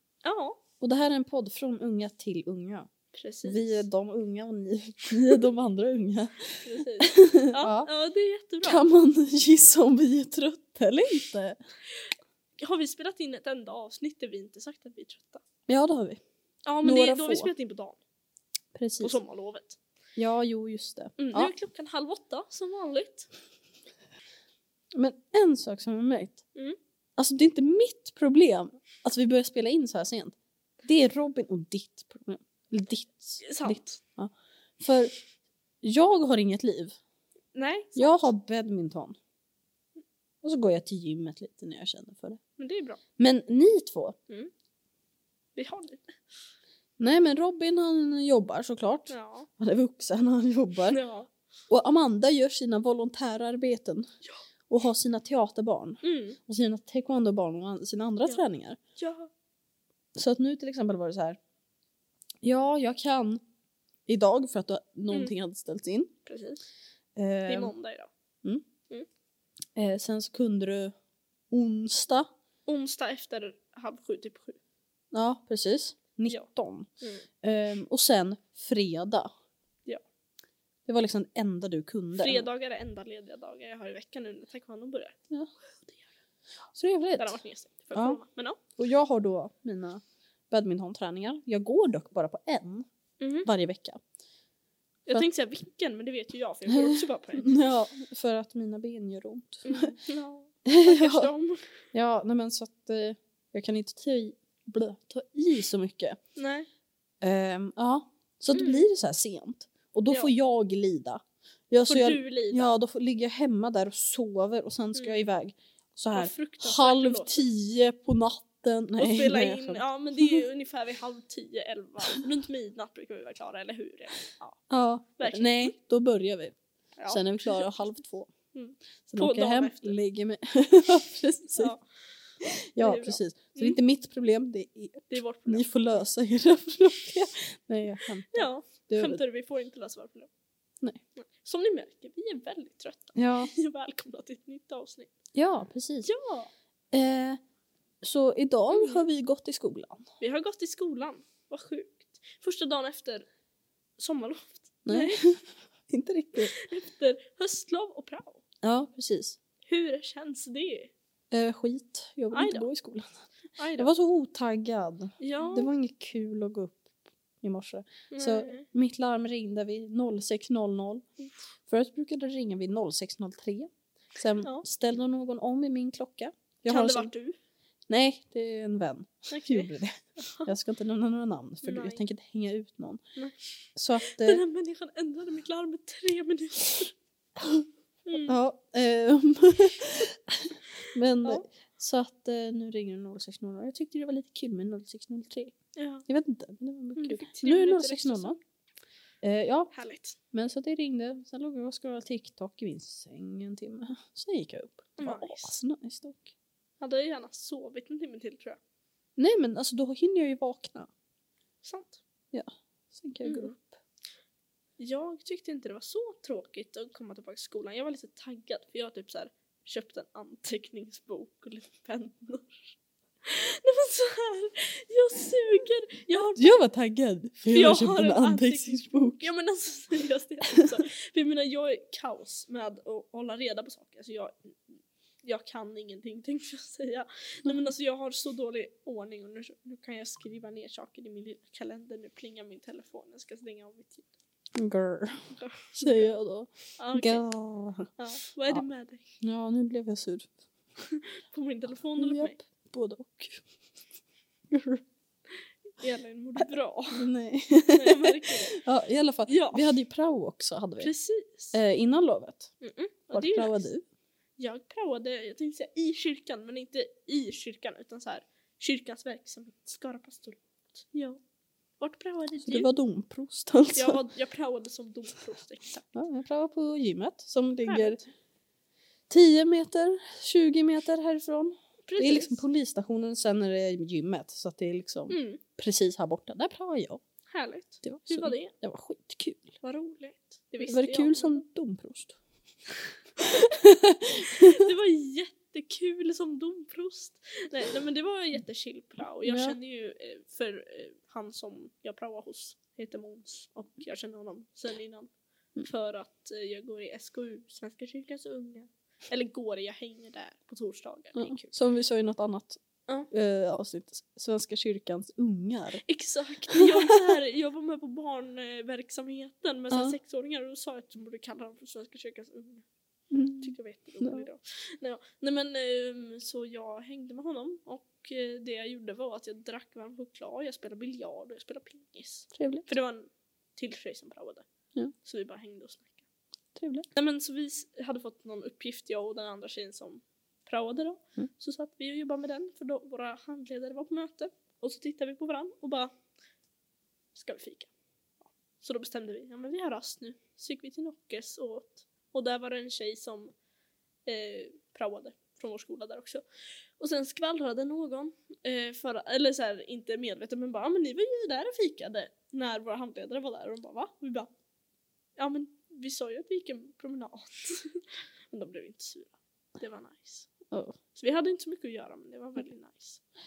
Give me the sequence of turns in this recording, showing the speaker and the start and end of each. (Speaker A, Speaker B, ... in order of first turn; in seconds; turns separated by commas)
Speaker A: 0.2-0.6, Speaker B: 0.8-2.9, Speaker A: 3.1-3.9, Speaker B: 3.4-7.9, Speaker A: 6.6-8.8, Speaker B: 8.6-11.6, Speaker A: 12.6-15.4, Speaker B: 15.7-16.2, Speaker A: 16.6-18.0, Speaker B: 16.8-17.5, Speaker B: 18.7-19.1, Speaker A: 19.0-19.8, Speaker B: 20.1-21.5, Speaker A: 21.2-23.3, Speaker B: 24.9-26.4, Speaker B: 27.2-35.1, Speaker A: 33.4-34.0, Speaker B: 35.8-37.0, Speaker A: 37.5-38.3, Speaker B: 37.9-39.2, Speaker B: 40.4-42.4, Speaker A: 42.6-43.0, Speaker B: 43.2-44.1, Speaker A: 45.5-46.2, Speaker B: 47.0-51.0, Speaker A: 49.1-49.5, Speaker A: 50.9-51.3, Speaker B: 51.7-54.1, Speaker B: 54.7-58.8, Speaker A: 56.0-56.4, Speaker A: 59.0-59.3, Speaker B: 60.1-61.4, Speaker B: 62.4-63.4, Speaker B: 64.1-66.1, Speaker A: 66.2-66.6, Speaker B: 67.2-67.7, Speaker A: 67.5-68.1, Speaker B: 69.8-70.9, Speaker B: 71.5-72.3, Speaker A: 72.7-74.6, Speaker B: 75.1-76.9, Speaker A: 77.0-77.2, Speaker B: 77.4-79.3, Speaker B: 80.8-82.5, Speaker A: 82.2-85.2, Speaker B: 86.7-87.4, Speaker A: 87.2-88.6, Speaker B: 87.9-88.2, Speaker B: 88.8-92.9, Speaker A: 93.2-93.5, Speaker B: 93.4-94.0, Speaker A: 95.0-97.5, Speaker B: 96.7-99.9, Speaker A: 99.6-101.8, Speaker B: 100.7-101.3, Speaker B: 101.9-106.2, Speaker A: 106.3-106.7, Speaker B: 107.2-120.4, Speaker A: 108.5-108.8, Speaker A: 111.9-112.7, Speaker A: 114.9-115.2, Speaker A: 116.1-117.4, Speaker A: 119.0-124.6, Speaker B: 124.7-126.5, Speaker A: 125.2-125.7, Speaker A: 127.0-127.7, Speaker B: 127.1-128.3, Speaker A: 128.5-129.9, Speaker B: 129.1-131.7, Speaker A: 131.5-131.8, Speaker B: 132.4-139.2, Speaker A: 132.8-133.8, Speaker A: 135.1-135.7, Speaker A: 138.3-140.3, Speaker A: 141.2-145.1, Speaker B: 143.1-143.5, Speaker B: 145.3-146.1, Speaker A: 146.0-146.5, Speaker B: 146.9-147.4, Speaker B: 148.0-150.1, Speaker A: 148.7-149.0, Speaker A: 150.2-153.2, Speaker A: 154.0-155.2, Speaker B: 154.8-156.5, Speaker A: 156.4-158.4, Speaker B: 158.6-159.4, Speaker A: 159.7-160.9, Speaker B: 161.3-163.1, Speaker A: 162.3-162.7, Speaker A: 163.6-163.9, Speaker B: 163.8-171.0, Speaker A: 165.2-165.7, Speaker A: 168.1-168.7, Speaker B: 171.6-177.1, Speaker A: 174.4-174.7, Speaker A: 176.7-177.4, Speaker B: 177.9-183.0, Speaker A: 179.3-180.5, Speaker A: 181.6-182.0, Speaker A: 183.2-186.9, Speaker B: 183.8-184.4, Speaker B: 187.4-187.6, Speaker A: 188.1-188.4, Speaker B: 188.2-195.5, Speaker A: 190.8-191.4, Speaker A: 195.8-196.0, Speaker B: 196.1-198.4, Speaker A: 196.9-198.4, Speaker B: 199.2-199.7, Speaker A: 199.7-200.2, Speaker B: 200.3-206.3, Speaker A: 205.0-205.6, Speaker A: 206.8-208.6, Speaker B: 209.2-210.9, Speaker A: 211.6-212.0, Speaker B: 212.3-213.8, Speaker A: 213.2-213.5, Speaker A: 214.8-226.5, Speaker B: 226.3-229.3, Speaker A: 227.5-234.6, Speaker A: 235.2-244.1, Speaker B: 244.5-245.2, Speaker A: 245.3-246.2, Speaker B: 245.7-247.9, Speaker A: 246.8-247.2, Speaker A: 248.0-249.1, Speaker B: 249.2-250.3, Speaker A: 250.8-252.4, Speaker B: 252.0-253.4, Speaker B: 254.5-254.8, Speaker A: 255.8-257.1, Speaker B: 256.4-260.9, Speaker A: 257.7-258.6, Speaker A: 259.3-259.7, Speaker A: 260.8-261.6, Speaker B: 261.5-262.5, Speaker A: 262.6-263.6, Speaker B: 263.1-263.8, Speaker A: 264.4-271.2, Speaker A: 271.8-272.7, Speaker B: 272.4-274.0, Speaker A: 273.7-275.9, Speaker B: 275.9-278.0, Speaker A: 277.6-278.0, Speaker B: 279.1-287.0, Speaker A: 281.9-282.4, Speaker A: 285.1-285.4, Speaker A: 287.3-288.5, Speaker B: 287.8-289.5, Speaker A: 289.6-291.4, Speaker B: 290.6-292.2, Speaker B: 293.2-294.7, Speaker A: 293.2-293.6, Speaker A: 294.2-311.5, Speaker B: 299.2-299.6, Speaker B: 311.1-315.8, Speaker A: 315.8-322.6, Speaker B: 316.5-317.0, Speaker B: 319.7-320.0, Speaker B: 323.1-324.2, Speaker A: 323.4-334.4, Speaker B: 332.3-332.7, Speaker A: 335.0-336.0, Speaker B: 336.5-336.9, Speaker A: 336.9-345.9, Speaker A: 347.1-347.7, Speaker A: 348.6-353.3, Speaker A: 354.1-356.2, Speaker A: 356.8-364.3, Speaker A: 365.2-370.3, Speaker B: 370.5-370.8, Speaker A: 370.9-373.0